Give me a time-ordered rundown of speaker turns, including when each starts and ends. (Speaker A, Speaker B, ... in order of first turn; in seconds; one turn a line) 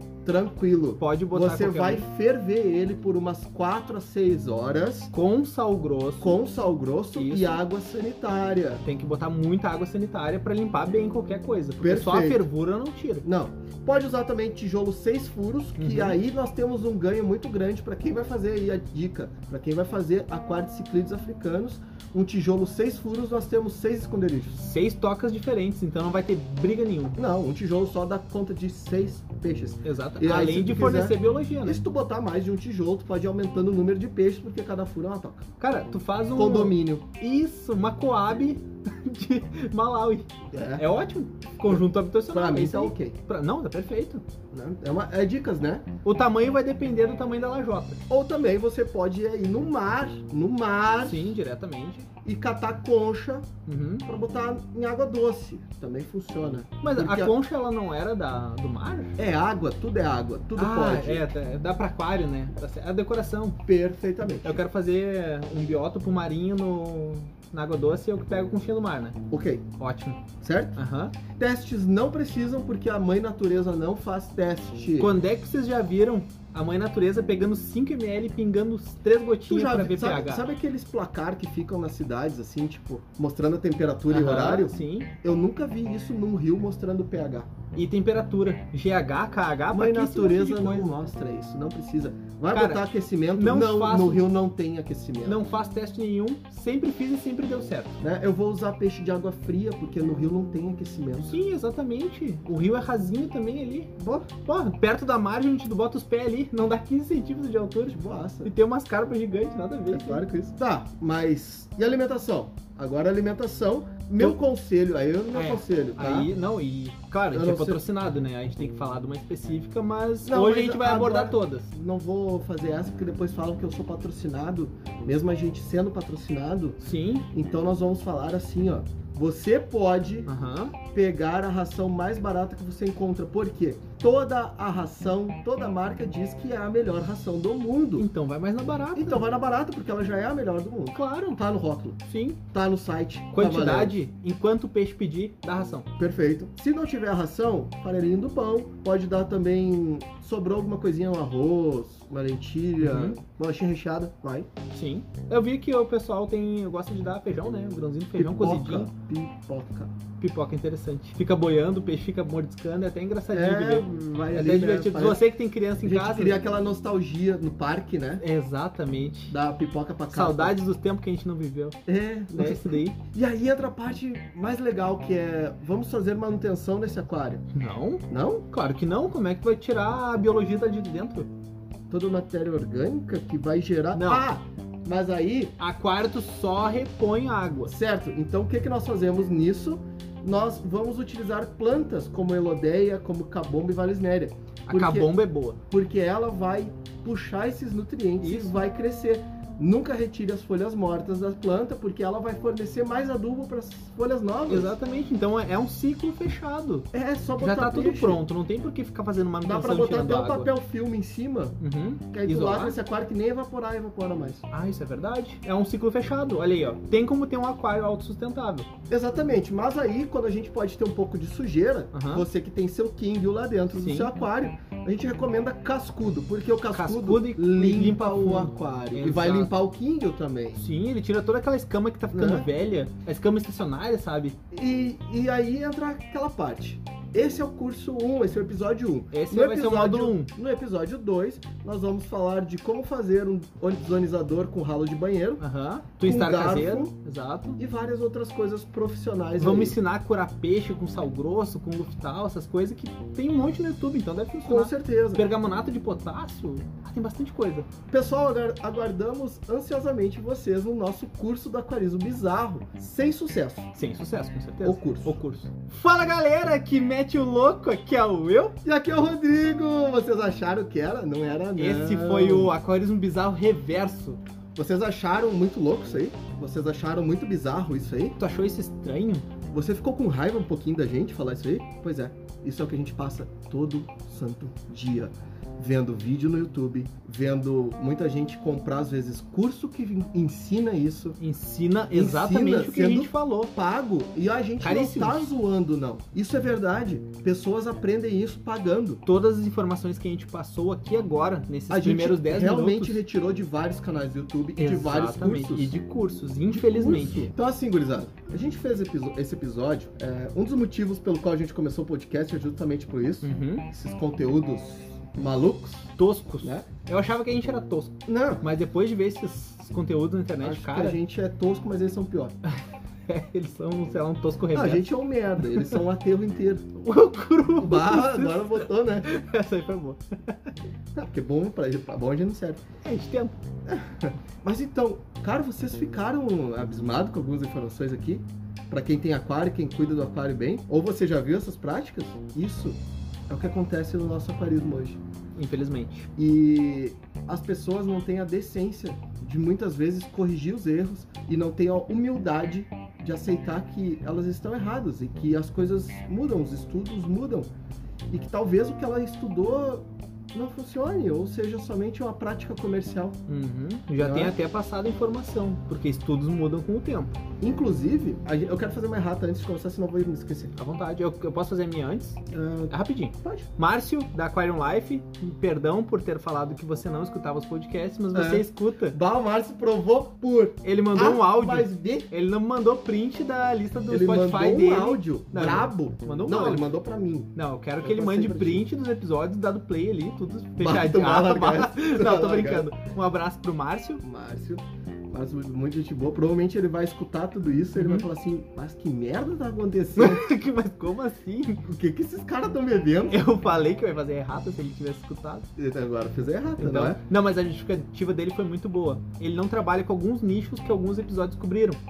Speaker A: 0.2-5.1
Speaker B: 1.0-2.0
Speaker B: 5.1-6.4
Speaker A: 6.2-8.8
Speaker B: 7.1-7.6
Speaker B: 8.8-13.2
Speaker A: 11.8-12.4
Speaker A: 13.2-24.6
Speaker B: 15.8-16.2
Speaker B: 24.6-27.2
Speaker A: 27.1-35.5
Speaker B: 29.8-31.8
Speaker B: 35.6-44.2
Speaker A: 36.3-37.0
Speaker A: 40.5-40.9
Speaker A: 41.7-43.1
Speaker A: 44.5-45.9
Speaker B: 46.0-48.0
Speaker A: 48.1-51.3
Speaker B: 51.0-52.1
Speaker A: 52.2-53.5
Speaker B: 53.6-54.0
Speaker A: 54.0-57.3
Speaker B: 56.8-59.1
Speaker A: 59.2-61.2
Speaker B: 60.5-63.6
Speaker A: 63.6-64.6
Speaker B: 64.4-69.2
Speaker A: 69.3-69.7
Speaker B: 69.8-71.1
Speaker A: 70.4-70.8
Speaker A: 71.3-75.1
Speaker B: 75.0-80.5
Speaker A: 79.5-87.5
Speaker B: 84.1-85.1
Speaker B: 87.8-90.9
Speaker A: 89.7-95.4
Speaker B: 92.5-94.3
Speaker B: 95.2-98.0
Speaker A: 98.0-101.4
Speaker B: 101.3-103.9
Speaker A: 104.0-104.3
Speaker B: 104.5-110.2
Speaker A: 107.9-108.5
Speaker A: 109.9-116.3
Speaker B: 115.3-121.7
Speaker A: 117.3-117.8
Speaker A: 120.2-126.8
Speaker B: 126.8-127.3
Speaker A: 127.3-130.3
Speaker B: 130.3-130.8
Speaker A: 130.8-138.1
Speaker B: 138.0-139.2
Speaker A: 138.9-142.0
Speaker B: 140.9-141.4
Speaker B: 142.1-142.4
Speaker A: 142.5-143.9
Speaker B: 143.3-145.9
Speaker A: 146.0-154.5
Speaker B: 152.8-153.2
Speaker B: 154.7-158.9
Speaker A: 158.2-159.9
Speaker B: 160.2-166.4
Speaker A: 163.3-165.2
Speaker A: 165.8-168.2
Speaker B: 168.2-169.3
Speaker A: 169.3-170.6
Speaker B: 170.1-171.8
Speaker A: 171.9-177.4
Speaker B: 172.3-173.0
Speaker B: 177.5-181.3
Speaker A: 178.1-178.4
Speaker A: 181.9-185.6
Speaker B: 183.9-184.2
Speaker B: 185.6-187.7
Speaker A: 187.7-195.1
Speaker B: 194.7-195.6
Speaker A: 195.7-204.7
Speaker B: 198.2-198.6
Speaker B: 204.5-206.9
Speaker A: 206.9-208.2
Speaker B: 207.4-210.5
Speaker A: 209.4-211.6
Speaker B: 211.6-212.8
Speaker A: 212.1-214.4
Speaker B: 214.5-218.7
Speaker A: 218.9-230.6
Speaker B: 221.9-222.2
Speaker B: 223.7-224.1
Speaker B: 226.7-229.5
Speaker B: 230.6-234.4
Speaker A: 232.1-232.5
Speaker A: 234.5-245.4
Speaker B: 239.1-240.3
Speaker B: 245.4-247.6
Speaker A: 246.0-246.9
Speaker A: 247.6-249.8
Speaker B: 249.4-257.7
Speaker A: 254.4-255.2
Speaker A: 257.9-263.7
Speaker B: 263.8-268.6
Speaker A: 264.6-265.2
Speaker A: 268.6-272.5
Speaker B: 271.6-274.2
Speaker A: 274.5-278.1
Speaker B: 278.2-279.3
Speaker A: 279.5-291.2
Speaker B: 291.2-293.5
Speaker A: 291.9-299.0
Speaker B: 294.6-295.3
Speaker B: 299.0-303.0
Speaker A: 301.7-305.8
Speaker B: 304.6-307.3
Speaker A: 306.5-315.9
Speaker B: 313.2-313.6
Speaker B: 316.0-321.0
Speaker A: 318.1-318.4
Speaker A: 320.4-322.4
Speaker B: 322.5-324.9
Speaker A: 324.5-326.7
Speaker B: 325.4-325.8
Speaker B: 326.8-330.4
Speaker A: 327.6-329.1
Speaker A: 330.9-332.6
Speaker B: 332.8-333.4
Speaker A: 333.7-342.8
Speaker A: 343.3-345.0
Speaker B: 345.4-346.1
Speaker A: 346.2-357.5
Speaker A: 358.1-363.2
Speaker B: 363.3-367.1
Speaker A: 364.0-364.3
Speaker A: 367.4-370.5
Speaker B: 370.6-379.0
Speaker A: 372.3-373.5
Speaker A: 378.1-382.1
Speaker B: 380.6-386.6
Speaker A: 383.9-388.6
Speaker B: 387.3-394.0
Speaker A: 390.6-392.7
Speaker A: 394.0-400.3
Speaker B: 397.8-398.1
Speaker B: 399.9-401.6
Speaker A: 401.6-403.2
Speaker B: 403.1-405.5
Speaker A: 405.6-407.0
Speaker B: 406.6-411.8